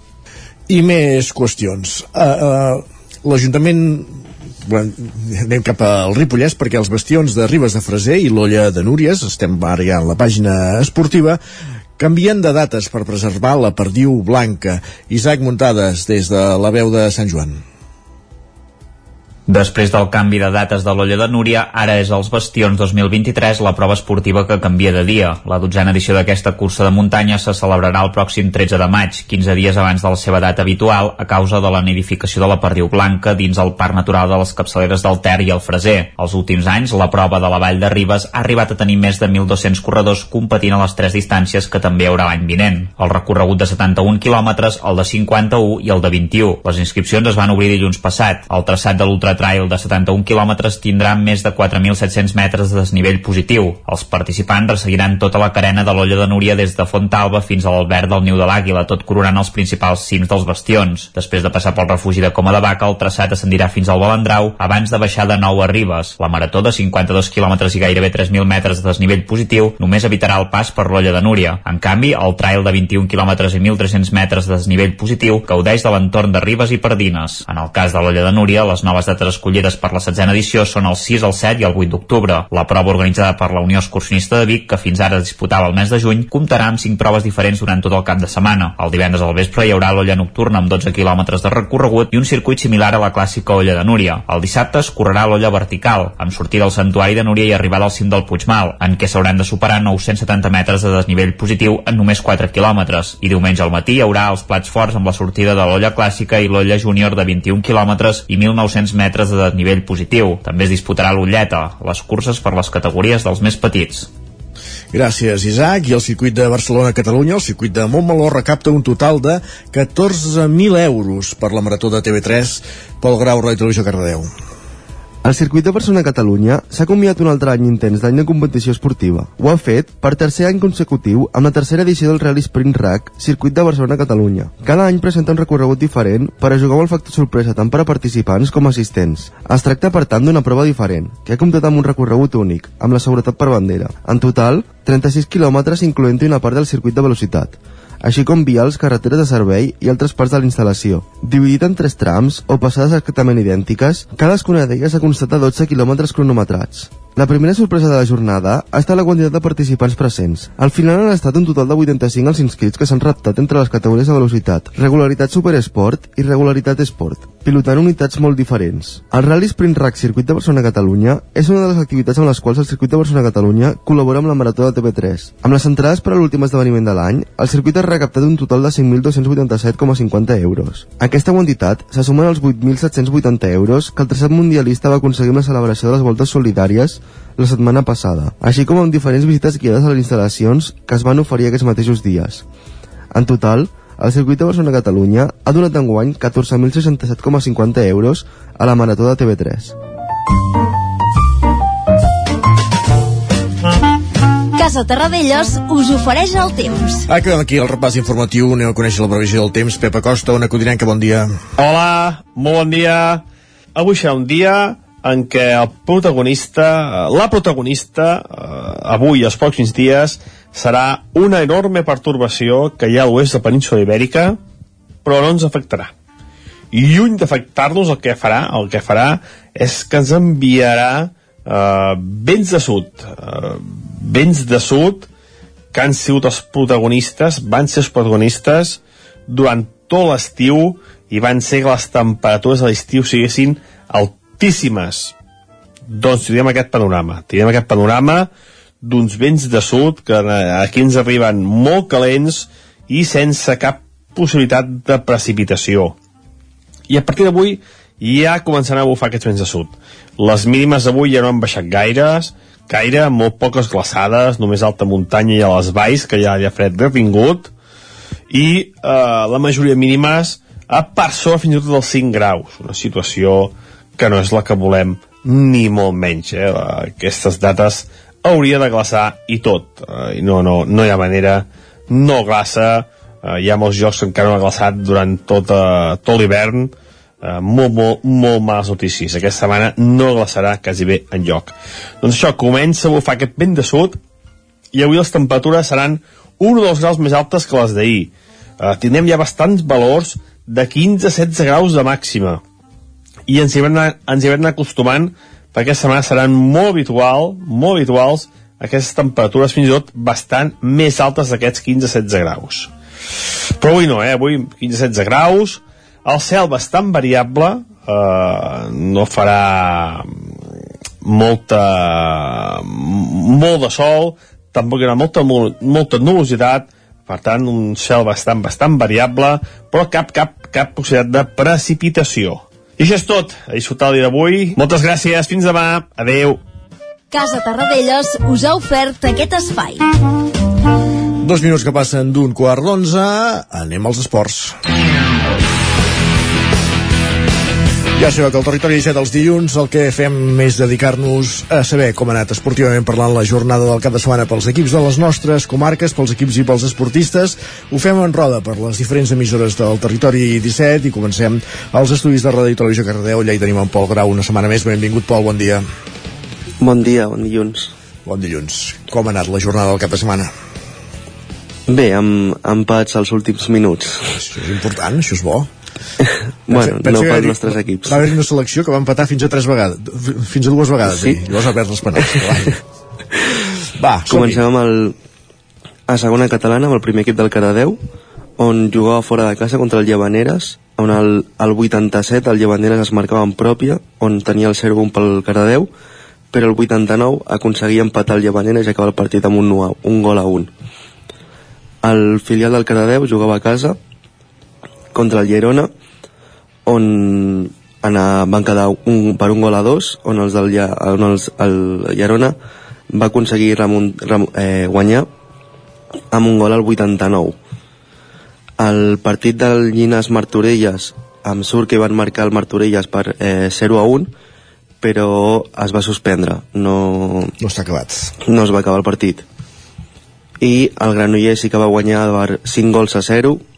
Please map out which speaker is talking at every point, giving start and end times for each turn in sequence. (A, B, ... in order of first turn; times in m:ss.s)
0:00.7-0:11.4 A
0:12.0-0:17.6 A
0:19.5-1:54.1 B
1:54.9-2:04.3 A
2:05.2-3:12.4 C
3:13.1-3:19.8 C
3:24.6-3:27.0 D
3:27.1-3:31.3 A
3:31.6-3:33.2 E
3:33.7-3:44.4 E
3:45.0-3:45.9 E
3:46.7-3:55.1 E
3:55.7-4:05.1 E
4:05.9-4:08.3 E
4:08.8-4:16.0 E
4:16.9-4:27.5 E
4:28.3-4:46.7 E
4:47.2-4:54.0 E
4:54.7-5:02.4 E
5:03.3-5:12.7 E
5:13.6-5:20.4 E
5:21.0-5:36.4 E
5:37.1-5:39.8 D
5:41.2-5:44.6 A
5:48.0-6:05.6 A
6:06.6-6:07.7 F
6:08.1-6:10.3 A
6:11.7-6:14.1 F
6:14.1-6:15.5 A
6:16.5-6:18.0 F
6:16.5-6:22.6 A
6:20.8-6:21.2 F
6:22.1-6:22.5 F
6:23.8-6:24.4 A
6:24.1-6:25.0 F
6:25.9-6:27.8 F
6:28.4-6:35.7 F
6:36.3-6:40.5 F
6:41.8-6:43.8 F
6:44.9-6:45.7 F
6:46.6-6:52.4 F
6:52.9-6:55.1 F
6:56.1-6:57.4 F
6:58.6-7:04.1 F
7:04.8-7:07.3 F
7:07.4-7:08.1 A
7:08.3-7:09.2 F
7:10.4-7:13.4 F